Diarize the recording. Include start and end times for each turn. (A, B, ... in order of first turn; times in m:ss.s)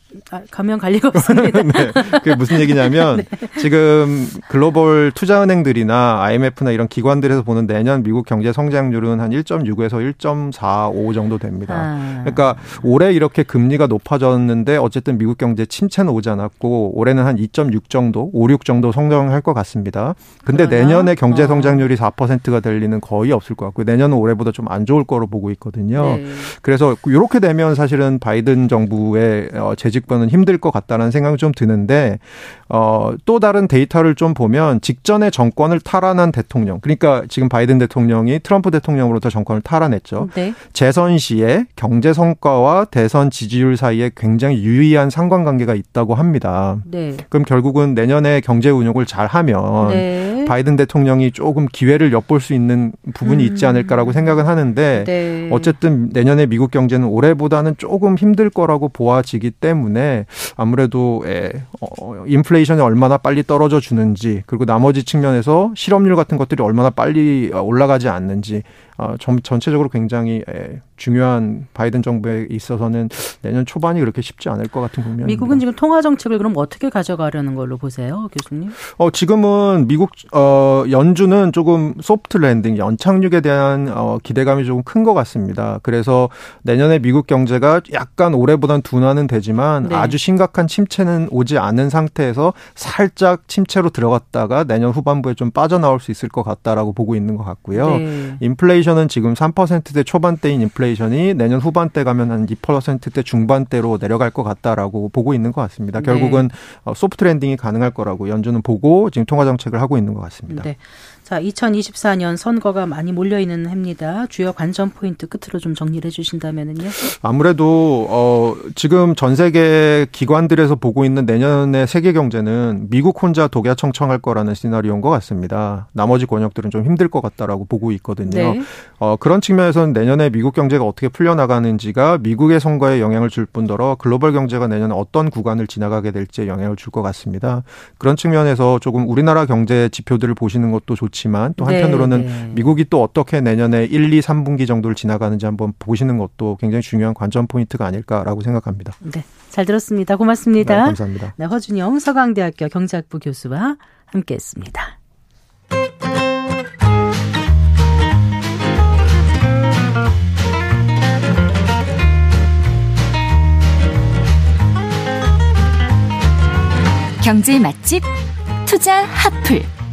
0:00.3-0:03.7 A
0:01.2-1:15.6 B
0:11.7-0:12.9 A
0:20.5-0:21.8 A
0:26.0-0:26.5 A
0:40.2-0:40.6 A
0:46.8-0:47.2 A
0:49.8-0:50.6 A
0:53.2-0:54.4 A
0:54.9-0:55.8 A
1:15.2-1:18.8 A
1:18.9-1:50.7 B
1:29.8-1:30.2 A
1:37.7-1:38.4 A
1:46.0-1:46.4 A
1:50.5-1:57.0 A
1:57.0-2:29.0 B
2:08.3-2:08.7 A
2:21.6-2:22.7 A
2:29.0-2:35.0 A
2:30.6-2:31.4 B
2:47.2-2:48.1 C
2:48.6-2:49.7 C